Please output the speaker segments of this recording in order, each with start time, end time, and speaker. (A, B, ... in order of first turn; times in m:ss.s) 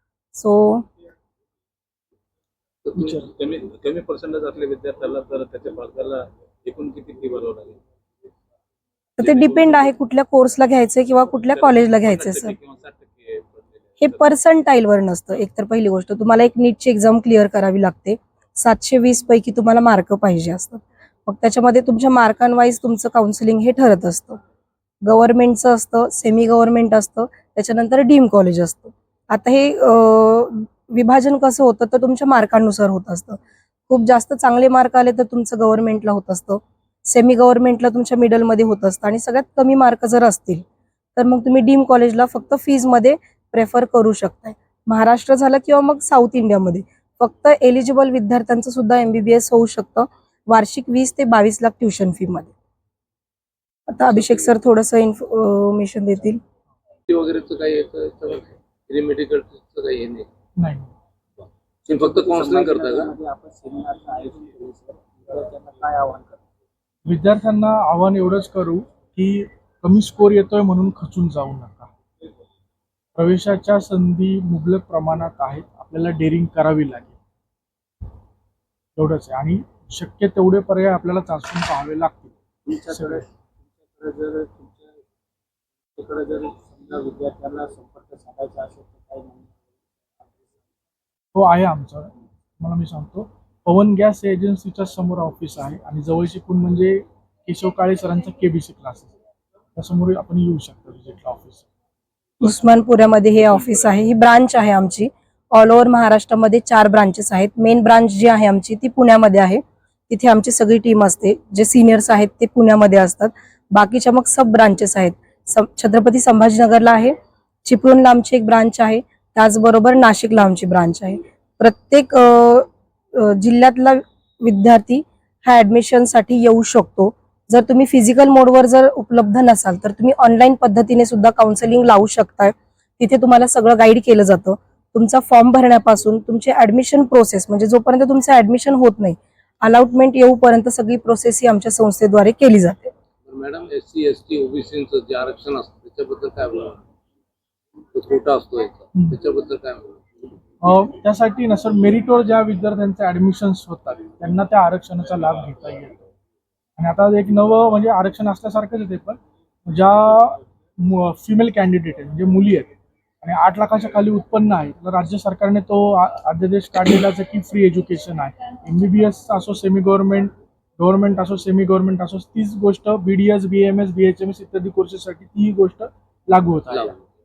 0:00.4-0:00.8 A
0:02.9-0:07.8 B
0:03.0-0:03.2 C
0:09.2-0:12.6 A
0:09.2-0:09.9 B
0:11.5-0:14.2 B
0:14.0-0:24.4 A
0:25.1-0:40.6 A
0:41.2-0:52.5 A
0:53.9-0:56.4 A
0:54.1-0:54.5 B
0:57.1-1:00.3 B
1:00.6-1:00.9 C
1:01.9-1:03.1 B
1:01.9-1:06.4 D
1:07.0-1:11.9 C
1:13.2-1:17.2 C
1:19.0-1:22.4 C
1:22.7-1:23.3 D
1:22.9-1:23.3 C
1:23.8-1:25.0 D
1:26.0-1:30.7 D
1:31.3-1:39.2 C
1:39.8-1:41.7 C
1:42.4-2:22.9 A
1:43.4-1:43.9 B
2:23.3-2:26.8 B
2:27.9-2:30.0 B
2:30.6-2:36.0 C
2:36.8-2:56.9 C
2:56.7-2:57.0 B